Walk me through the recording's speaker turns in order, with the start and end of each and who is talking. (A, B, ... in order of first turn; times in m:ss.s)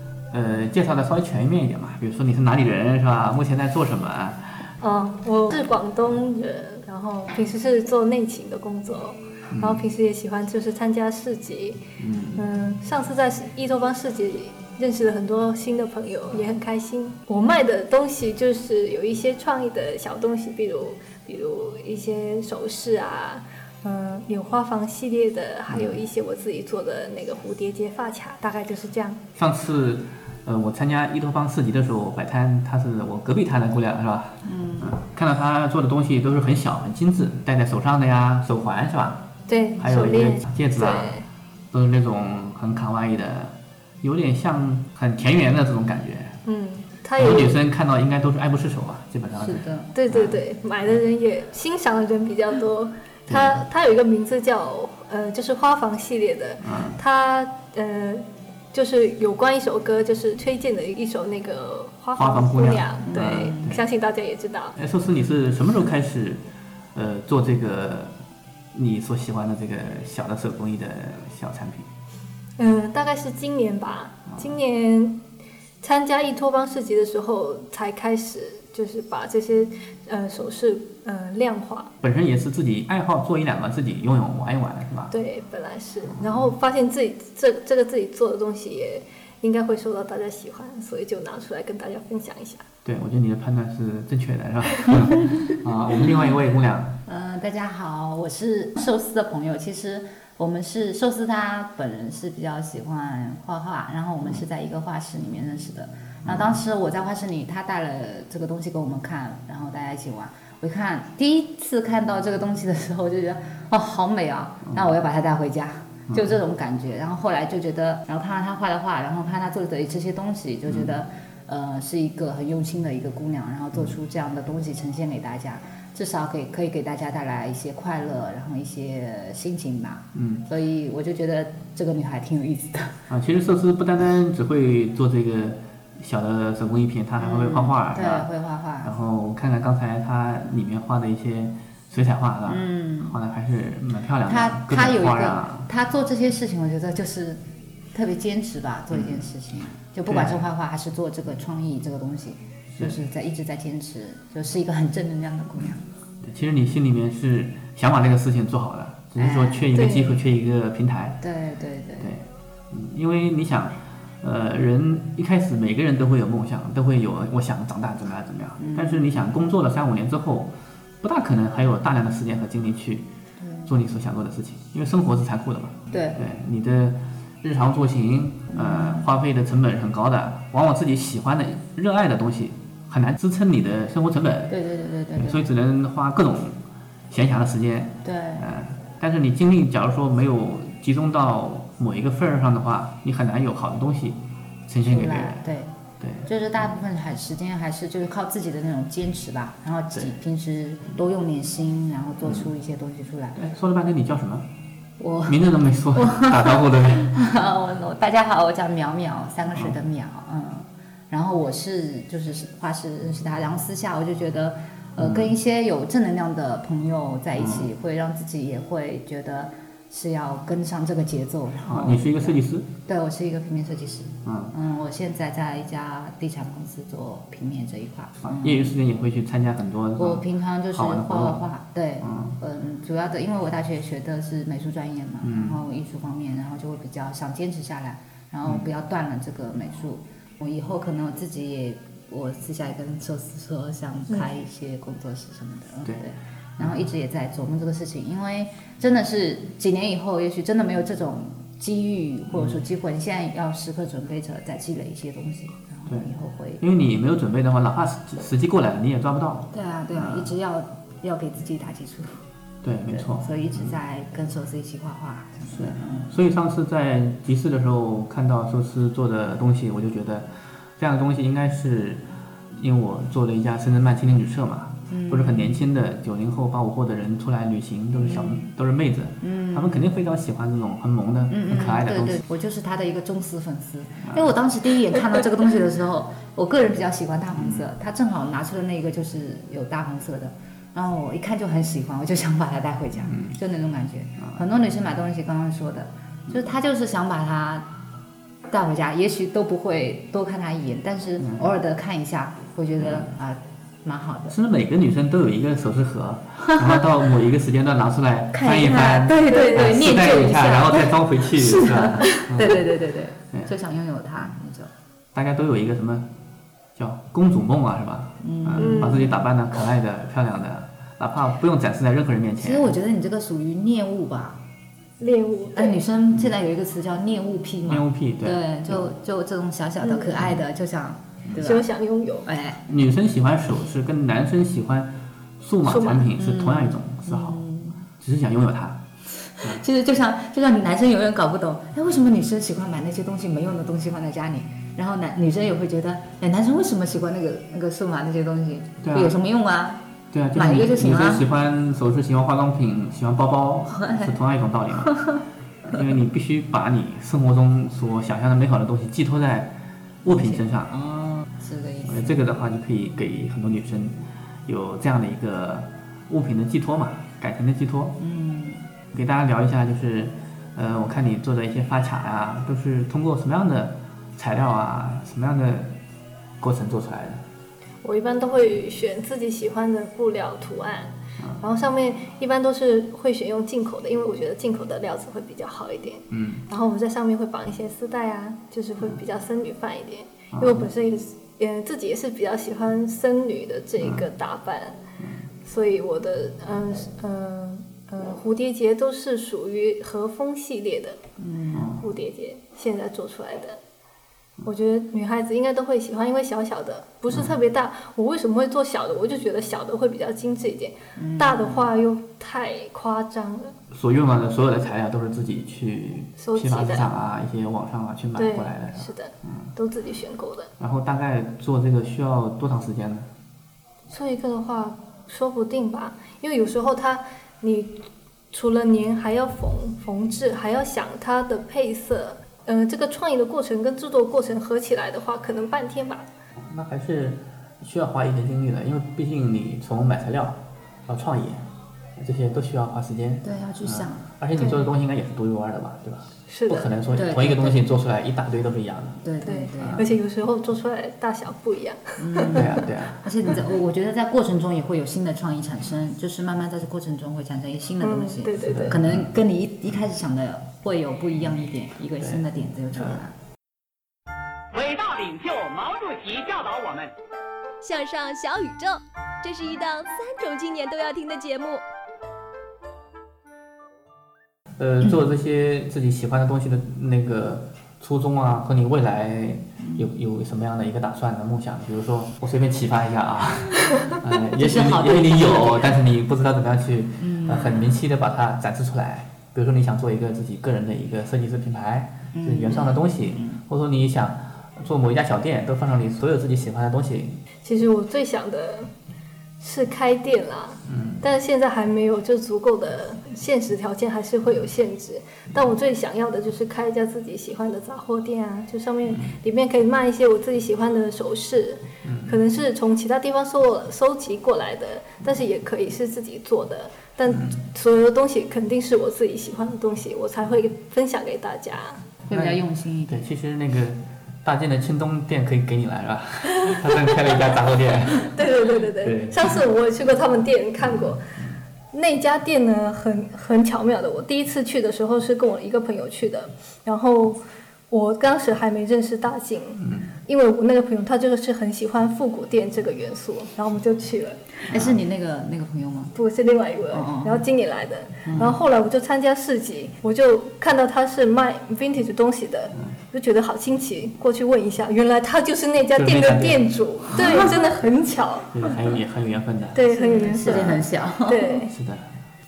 0:00.3-0:04.6 A
0:04.8-0:11.8 B
0:09.5-0:09.8 A
0:12.0-0:12.4 A
0:12.4-0:29.2 B
0:25.7-0:26.0 A
0:29.4-0:39.2 A
0:34.4-0:35.0 C
0:39.5-0:41.2 B
0:39.8-0:46.4 A
0:46.4-0:47.5 B
0:47.2-0:50.4 A
0:49.4-0:49.9 C
0:49.9-1:04.7 B
0:53.3-0:53.6 A
0:56.6-0:57.0 A
1:02.2-1:03.8 A
1:03.0-1:03.8 C
1:04.8-1:06.4 A
1:06.9-1:08.1 A
1:08.7-1:11.9 A
1:12.6-1:15.2 B
1:15.8-1:21.9 B
1:22.0-1:25.1 A
1:25.1-1:32.6 B
1:32.8-1:37.0 A
1:37.0-2:13.0 C
1:46.2-1:46.6 A
1:56.1-1:56.3 A
2:00.7-2:01.0 A
2:10.1-2:10.4 A
2:13.1-2:18.3 A
2:17.2-2:18.9 C
2:18.8-2:25.7 A
2:22.5-2:23.2 C
2:24.3-2:35.8 C
2:28.9-2:29.3 A
2:30.1-2:30.4 A
2:36.2-2:41.2 A
2:39.2-2:39.7 C
2:39.7-2:40.2 B
2:41.2-2:42.1 C
2:42.0-2:53.1 A
2:48.6-2:49.0 C
2:53.4-2:53.8 C
2:53.6-3:04.6 A
2:55.9-2:56.2 C
2:58.5-2:59.1 C
3:04.5-3:05.5 C
3:05.2-3:06.6 A
3:07.1-3:15.4 A
3:08.0-3:08.5 C
3:14.8-3:15.7 C
3:16.0-3:16.3 A
3:16.2-3:23.4 C
3:22.2-3:22.5 A
3:23.4-3:24.5 A
3:25.0-3:48.8 C
3:25.3-3:27.3 A
3:35.0-3:35.3 A
3:37.4-3:37.7 A
3:41.6-3:42.7 A
3:44.2-3:44.5 A
3:48.2-3:51.4 A
3:50.0-4:16.6 C
3:52.0-3:52.4 A
3:55.2-3:55.6 A
4:06.6-4:06.8 A
4:12.3-4:12.6 A
4:15.9-4:20.3 A
4:19.5-4:22.2 C
4:22.6-4:23.8 A
4:22.9-4:26.1 C
4:25.5-4:32.0 A
4:32.5-4:42.2 A
4:34.9-4:35.6 C
4:38.0-4:38.4 C
4:39.2-4:39.9 C
4:41.3-4:57.7 C
4:44.1-4:44.3 A
4:47.4-4:47.7 A
4:53.1-4:53.4 A
4:58.5-5:04.3 C
5:02.8-5:03.1 A
5:04.3-5:12.7 A
5:06.6-5:06.8 C
5:08.3-5:14.7 C
5:09.2-5:09.7 B
5:15.1-5:16.1 A
5:16.8-5:22.7 A
5:18.2-5:19.2 C
5:18.6-5:19.0 B
5:22.4-5:24.4 C
5:25.0-5:25.8 B
5:25.5-5:31.7 C
5:27.7-5:28.9 A
5:31.4-5:32.3 B
5:32.2-5:32.6 C
5:32.7-5:37.4 A
5:35.6-5:36.1 B
5:36.2-5:37.8 C
5:38.0-5:38.8 A
5:39.1-5:51.3 C
5:48.8-5:49.2 A
5:50.1-6:00.7 A
5:53.7-5:54.1 C
5:54.8-5:55.2 C
6:00.1-6:02.2 C
6:01.8-6:08.0 A
6:08.0-6:08.6 C
6:08.9-6:15.7 A
6:16.4-6:17.2 A
6:17.8-6:34.8 B
6:26.1-6:26.4 A
6:30.3-6:30.7 A
6:33.8-6:34.0 A
6:35.4-6:41.0 B
6:41.2-6:41.7 C
6:41.5-6:41.8 A
6:41.8-6:43.6 B
6:44.4-6:53.5 B
6:51.0-6:51.7 C
6:53.7-6:59.5 A
6:56.2-6:56.9 B
6:58.2-7:00.5 B
7:00.6-7:03.1 A
7:03.9-7:16.1 B
7:16.4-7:29.0 A
7:23.2-7:24.7 C
7:26.3-7:26.7 B
7:26.9-7:27.6 C
7:29.0-7:29.8 C
7:29.2-7:32.3 B
7:29.6-7:29.8 A
7:32.0-7:43.1 C
7:32.3-7:33.1 A
7:37.8-7:38.7 B
7:38.4-7:39.1 A
7:44.5-7:46.9 D
7:47.6-7:51.6 E
7:54.6-8:17.2 A
7:59.6-7:59.9 C
8:04.3-8:05.8 C
8:07.0-8:07.8 C
8:12.1-8:13.4 C
8:17.4-8:18.7 B
8:19.4-8:41.8 B
8:20.7-8:21.0 A
8:28.9-8:29.1 A
8:31.8-8:32.2 A
8:37.1-8:37.4 A
8:42.1-8:43.0 C
8:42.1-8:48.2 A
8:48.1-8:51.0 B
8:48.8-8:49.4 A
8:50.6-8:51.4 A
8:51.7-8:57.2 B
8:57.7-9:04.2 B
8:59.6-8:59.9 A
9:04.4-9:05.9 C
9:04.5-9:04.8 A
9:05.9-9:18.3 B
9:06.7-9:07.2 C
9:08.0-9:08.4 C
9:15.7-9:17.4 A
9:16.9-9:17.3 C
9:18.3-9:19.6 A
9:19.5-9:21.5 B
9:19.8-9:21.4 C
9:20.2-9:20.6 A
9:21.5-9:21.9 A